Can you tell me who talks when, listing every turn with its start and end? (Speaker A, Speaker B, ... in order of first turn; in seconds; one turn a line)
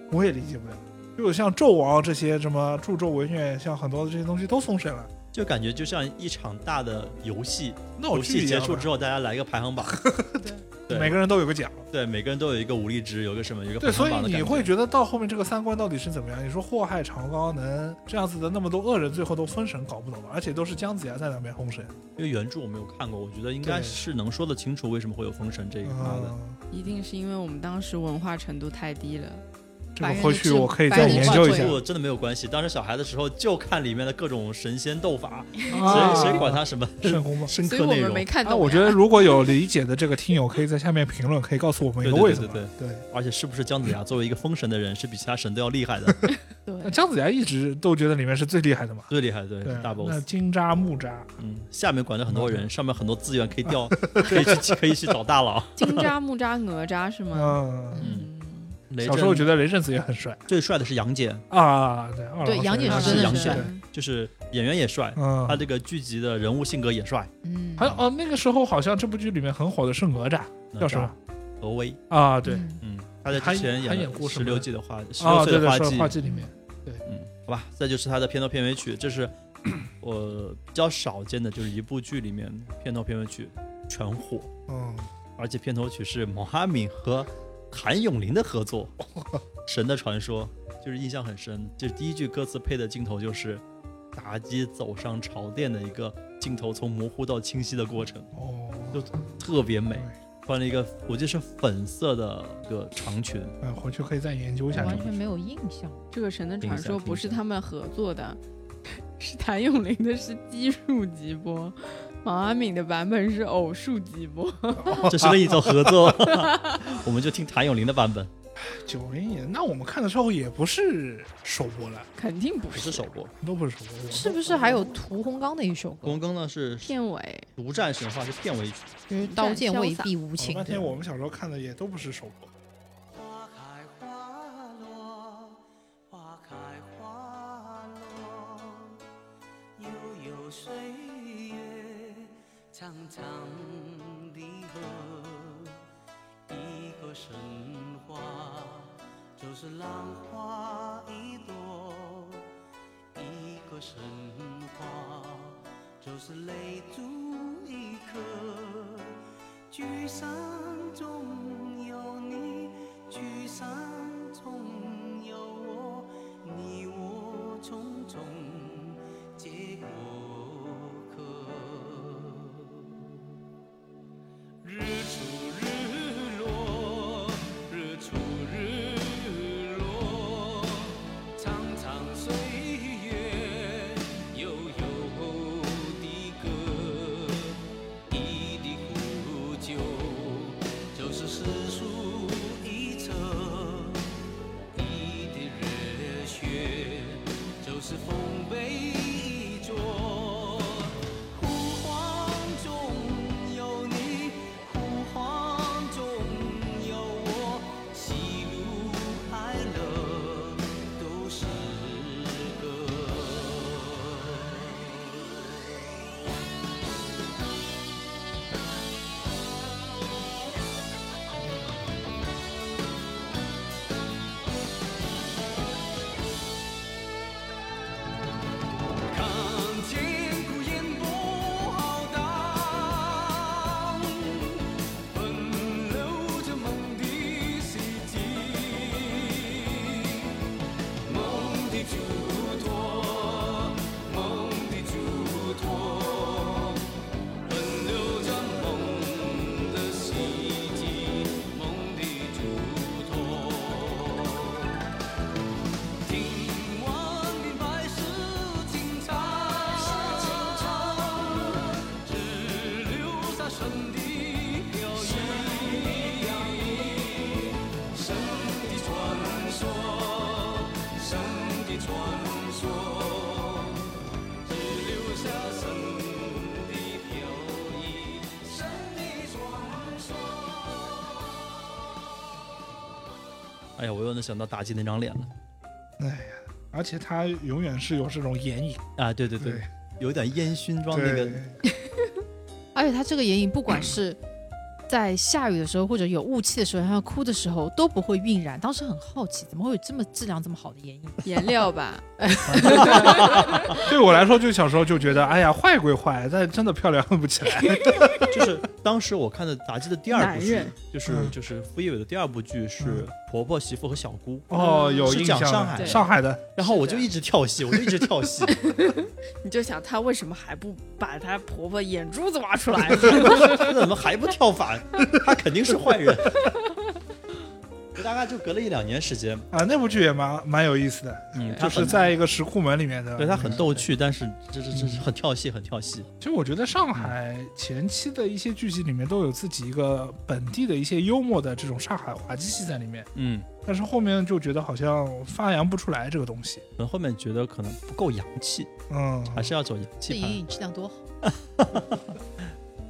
Speaker A: 0.1-5.1
Speaker B: 5.3-10.0
Speaker A: 8.0-8.9
Speaker A: 9.8-11.8
Speaker B: 10.9-11.2
Speaker B: 11.9-14.7
Speaker A: 13.8-21.9
Speaker B: 22.2-26.3
Speaker A: 23.6-24.0
Speaker A: 25.8-26.6
Speaker C: 26.7-29.4
Speaker A: 29.9-31.8
Speaker D: 30.0-31.8
Speaker B: 30.9-38.3
Speaker C: 35.7-36.2
Speaker A: 35.7-37.5
Speaker C: 37.6-39.0
Speaker A: 38.4-43.0
Speaker B: 42.0-46.2
Speaker C: 46.6-46.9
Speaker A: 46.8-49.1
Speaker B: 49.1-50.2
Speaker A: 49.6-51.4
Speaker B: 51.4-56.0
Speaker A: 52.3-52.6
Speaker A: 53.7-54.8
Speaker C: 55.8-58.8
Speaker A: 57.3-58.0
Speaker B: 58.0-58.3
Speaker B: 58.9-59.5
Speaker A: 59.0-60.4
Speaker B: 60.5-61.4
Speaker A: 61.5-63.7
Speaker D: 62.4-63.6
Speaker B: 62.9-67.3
Speaker C: 63.3-63.8
Speaker A: 65.2-65.6
Speaker D: 67.4-68.0
Speaker A: 67.8-71.1
Speaker B: 70.7-72.0
Speaker A: 72.1-72.7
Speaker D: 72.4-72.8
Speaker B: 72.8-76.2
Speaker A: 73.3-74.7
Speaker A: 75.2-77.0
Speaker D: 76.2-76.5
Speaker B: 77.0-79.3
Speaker B: 80.0-84.5
Speaker A: 84.7-85.1
Speaker B: 85.4-88.9
Speaker A: 89.1-89.4
Speaker B: 89.7-93.6
Speaker B: 94.1-98.3
Speaker A: 98.3-99.1
Speaker B: 98.9-103.5
Speaker A: 103.6-105.2
Speaker D: 104.7-106.0
Speaker B: 104.8-105.0
Speaker C: 106.1-115.1
Speaker B: 106.6-107.4
Speaker A: 114.8-116.2
Speaker B: 115.0-118.3
Speaker C: 116.5-116.8
Speaker A: 118.6-122.1
Speaker C: 122.2-123.1
Speaker B: 122.7-123.3
Speaker A: 123.4-124.8
Speaker D: 124.1-126.2
Speaker B: 126.0-127.0
Speaker C: 126.8-127.5
Speaker B: 127.5-128.9
Speaker D: 129.1-130.9
Speaker C: 129.2-130.1
Speaker A: 130.4-132.5
Speaker E: 133.1-139.0
Speaker E: 139.8-145.8
Speaker E: 146.5-152.5
Speaker E: 153.1-159.2
Speaker E: 159.7-172.9
Speaker E: 174.6-187.6
Speaker E: 188.1-194.0
Speaker E: 194.7-214.9
Speaker E: 229.1-240.3
Speaker E: 241.0-246.9
Speaker E: 247.5-254.7
Speaker E: 256.0-273.9
Speaker E: 274.4-281.2
Speaker B: 283.8-285.3
Speaker A: 286.0-288.8
Speaker B: 289.0-291.4
Speaker A: 289.4-289.6
Speaker A: 290.9-291.5
Speaker D: 292.7-294.2
Speaker D: 294.9-301.3
Speaker C: 301.2-303.5
Speaker D: 302.2-303.2
Speaker A: 302.5-308.5
Speaker B: 303.0-303.8
Speaker B: 308.3-318.6
Speaker C: 310.1-310.7
Speaker A: 311.1-311.3
Speaker A: 312.8-313.1
Speaker A: 314.5-316.6
Speaker C: 314.5-316.1
Speaker C: 316.6-317.1
Speaker C: 318.5-323.7
Speaker B: 323.1-326.6
Speaker B: 327.9-329.5
Speaker A: 329.5-333.9
Speaker B: 331.3-332.1
Speaker C: 331.5-331.9
Speaker B: 333.2-336.1
Speaker A: 334.7-335.1
Speaker A: 336.2-343.1
Speaker B: 343.1-343.5
Speaker A: 343.6-346.6
Speaker B: 346.8-348.7
Speaker A: 348.9-349.5
Speaker B: 349.3-350.4
Speaker D: 350.1-351.0
Speaker B: 351.2-352.1